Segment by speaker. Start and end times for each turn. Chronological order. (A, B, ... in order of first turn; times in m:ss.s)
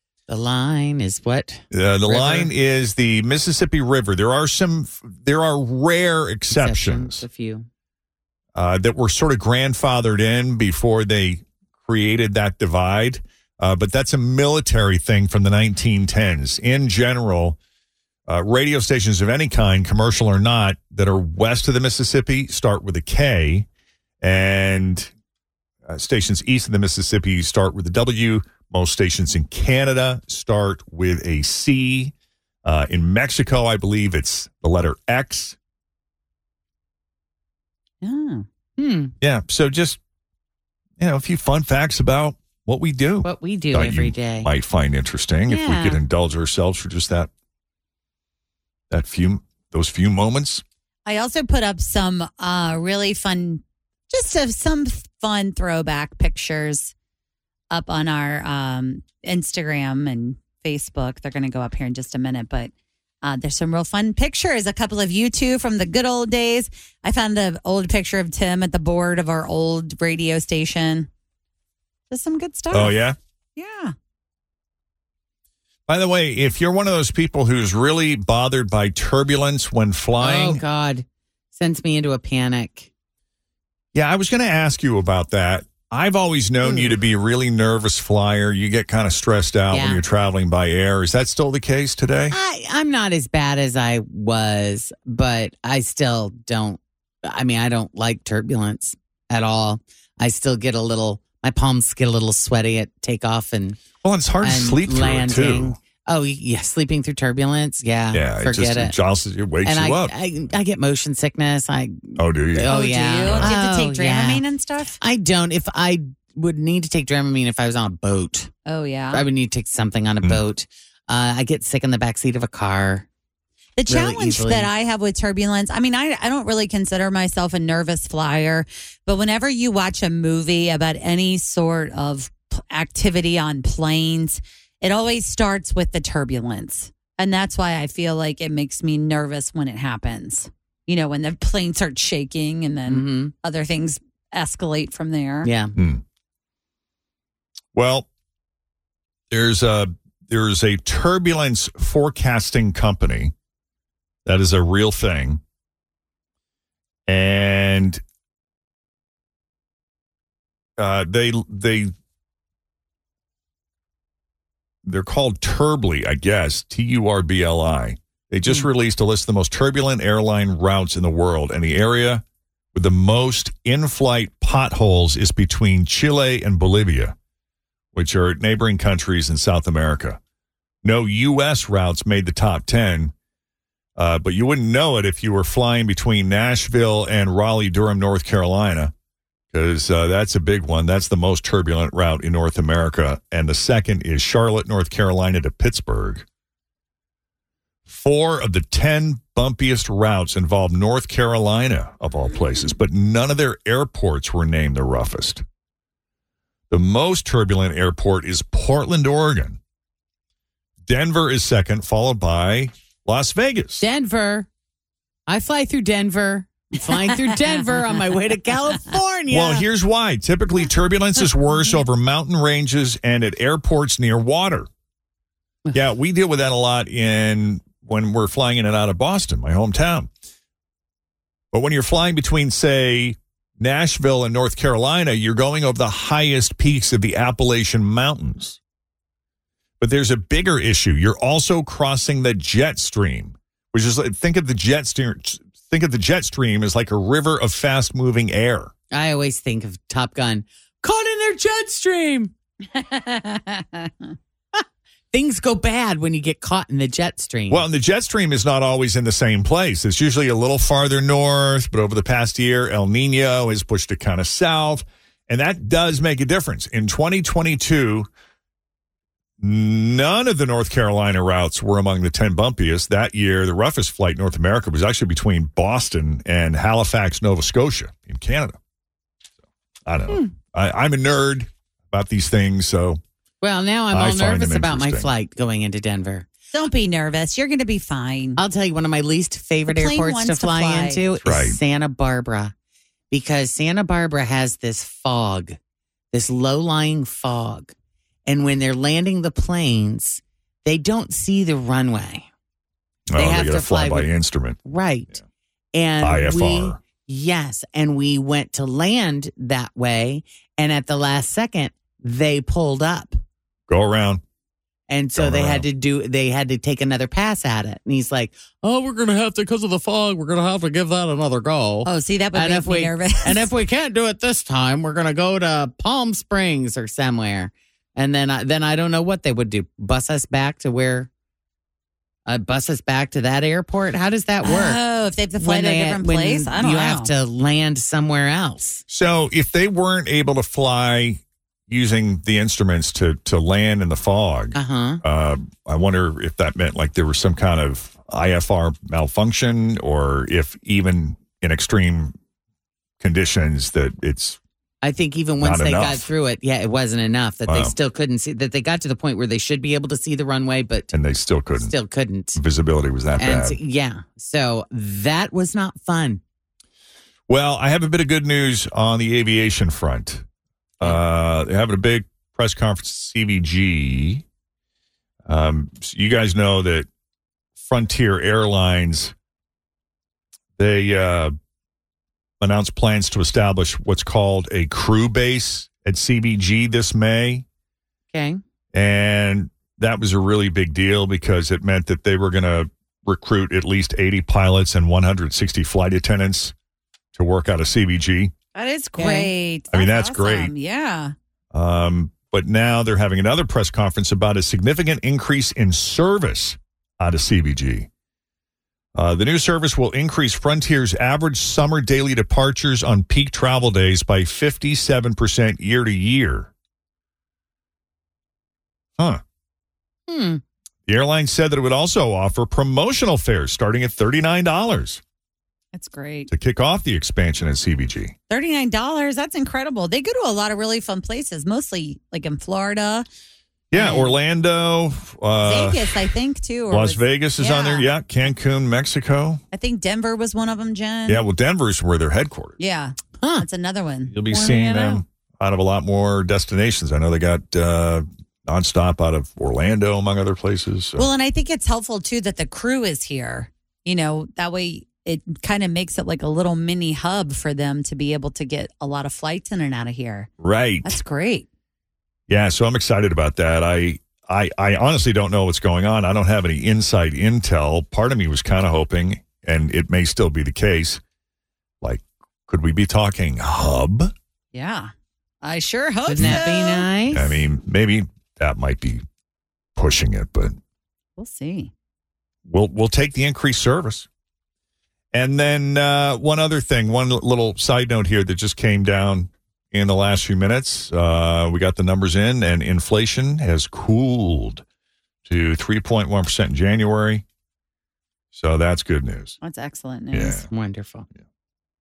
0:00.3-0:02.5 A
0:01.7-0:07.2 B
0:06.5-0:07.7 A
0:08.6-0:17.6 B
0:18.3-0:23.7 B
0:24.2-0:25.1 B
0:25.9-0:32.1 B
0:32.6-0:35.6 B
0:38.0-0:38.4 C
0:38.8-0:39.2 A
0:39.2-0:40.0 B
0:41.0-0:47.3 B
0:43.2-0:44.5 A
0:45.5-0:46.0 A
0:48.9-0:50.6 B
0:51.1-0:56.9 C
0:57.7-1:02.7 C
1:03.2-1:11.1 C
1:12.1-1:13.0 C
1:12.7-1:13.2 B
1:13.6-1:13.9 C
1:15.9-1:20.6 B
1:20.2-1:22.9 A
1:23.9-1:32.4 B
1:26.6-1:27.0 A
1:29.7-1:30.0 A
1:32.3-1:43.8 A
1:44.0-1:45.8 B
1:44.4-1:49.0 A
1:48.1-1:50.1 B
1:49.6-1:54.4 A
1:52.2-1:52.7 B
1:52.7-1:55.0 C
1:53.2-1:53.5 B
1:55.0-1:58.5 A
1:58.7-1:59.3 C
1:59.1-2:03.1 A
2:03.8-2:25.5 C
2:03.9-2:04.7 A
2:22.9-2:23.3 A
2:25.4-2:25.8 A
2:25.8-2:26.0 B
2:27.7-2:28.1 B
2:29.3-2:33.3 B
2:34.2-2:35.4 B
2:37.1-2:38.0 B
2:40.8-2:41.9 B
2:44.8-2:52.2 B
2:52.7-2:57.2 B
2:57.9-3:00.2 B
3:00.8-3:03.1 B
3:04.0-3:08.9 B
3:09.5-3:16.2 B
3:17.9-3:25.4 B
3:26.7-3:29.6 B
3:30.9-3:33.8 B
3:33.8-3:34.5 A
3:35.3-3:39.7 A
3:39.3-3:44.7 B
3:45.7-3:50.1 B
3:51.5-3:58.6 B
3:59.8-4:08.7 B
4:08.9-4:12.3 A
4:12.8-4:13.9 C
4:15.1-4:17.7 A
4:17.5-4:28.1 B
4:29.4-4:38.6 B
4:39.9-4:43.0 B
4:43.4-4:46.3 A
4:43.9-4:45.1 B
4:46.5-4:48.4 C
4:48.4-4:52.5 A
4:49.7-4:51.0 C
4:51.2-4:51.6 B
4:53.1-4:55.6 A
4:56.1-4:57.7 A
4:58.3-5:02.3 A
5:03.1-5:04.6 B
5:03.2-5:04.1 A
5:04.6-5:05.1 A
5:05.7-5:13.2 A
5:06.0-5:06.8 B
5:13.7-5:14.2 B
5:14.9-5:31.1 A
5:15.2-5:15.7 B
5:21.8-5:23.5 C
5:32.3-5:34.8 A
5:34.4-5:37.1 C
5:35.4-5:38.8 A
5:38.9-5:52.2 B
5:44.6-5:45.0 A
5:53.0-5:54.4 B
5:54.8-6:00.9 A
5:55.4-5:56.1 B
5:57.5-5:57.8 B
6:00.9-6:01.7 B
6:01.6-6:02.4 A
6:02.4-6:03.6 B
6:03.2-6:06.2 A
6:07.3-6:10.2 B
6:10.8-6:14.2 B
6:15.3-6:16.9 B
6:17.6-6:19.1 B
6:20.6-6:21.3 B
6:22.4-6:27.4 B
6:28.1-6:28.4 A
6:28.7-6:36.5 B
6:37.2-6:38.3 B
6:38.5-6:41.1 C
6:39.0-6:39.3 A
6:39.7-6:40.5 B
6:41.5-6:47.9 B
6:49.0-6:56.5 B
7:00.1-7:00.4 A
7:00.9-7:05.0 B
7:05.7-7:06.3 C
7:06.3-7:08.1 B
7:08.3-7:13.1 C
7:13.7-7:16.1 B
7:13.7-7:14.2 C
7:15.4-7:17.9 C
7:16.7-7:19.4 B
7:19.5-7:21.2 C
7:21.1-7:22.6 B
7:22.6-7:25.0 C
7:24.1-7:31.1 B
7:31.0-7:40.3 C
7:40.4-7:41.0 B
7:40.8-7:41.5 C
7:42.3-7:51.0 B
7:51.8-7:54.1 B
7:54.5-7:56.9 C
7:56.1-7:57.3 A
7:57.1-7:59.0 B
7:59.8-8:00.6 B
8:01.2-8:01.7 C
8:02.5-8:04.1 B
8:05.1-8:14.6 B
8:15.3-8:17.2 B
8:18.3-8:19.4 B
8:19.4-8:20.4 C
8:20.1-8:20.5 B
8:20.5-8:21.1 A